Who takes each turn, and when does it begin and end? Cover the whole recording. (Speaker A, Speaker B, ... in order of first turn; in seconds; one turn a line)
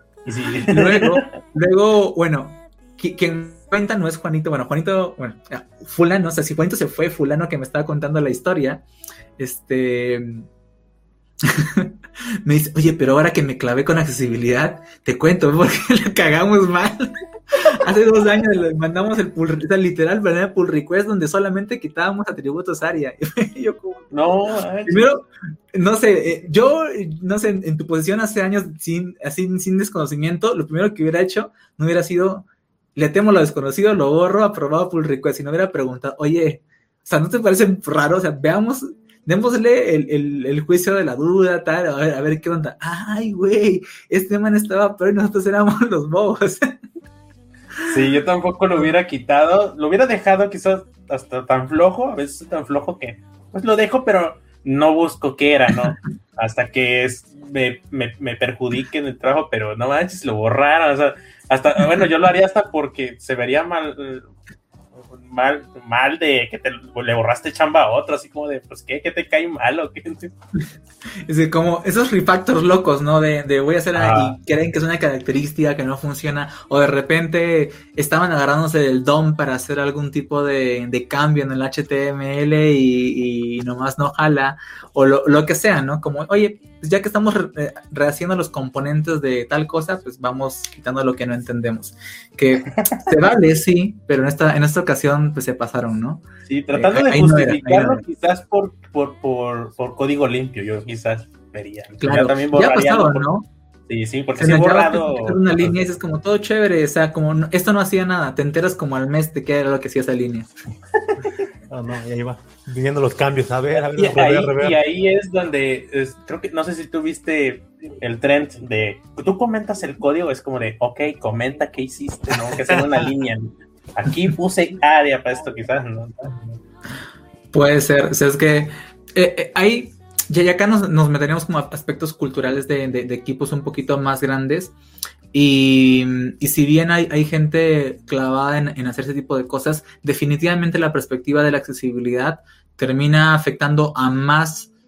Speaker A: 0.2-1.2
Speaker B: 0.6-8.8
Speaker B: 9.4-10.5
Speaker B: 11.4-24.1
Speaker A: 24.1-25.1
Speaker B: 24.9-46.8
Speaker A: 47.8-64.3
Speaker A: 65.0-70.3
Speaker B: 71.2-98.0
Speaker A: 73.9-74.3
Speaker A: 96.5-103.3
Speaker B: 102.0-103.5
Speaker A: 103.9-105.8
Speaker B: 104.4-110.5
Speaker C: 111.7-114.8
Speaker A: 114.0-126.6
Speaker B: 127.5-134.7
Speaker B: 135.3-144.7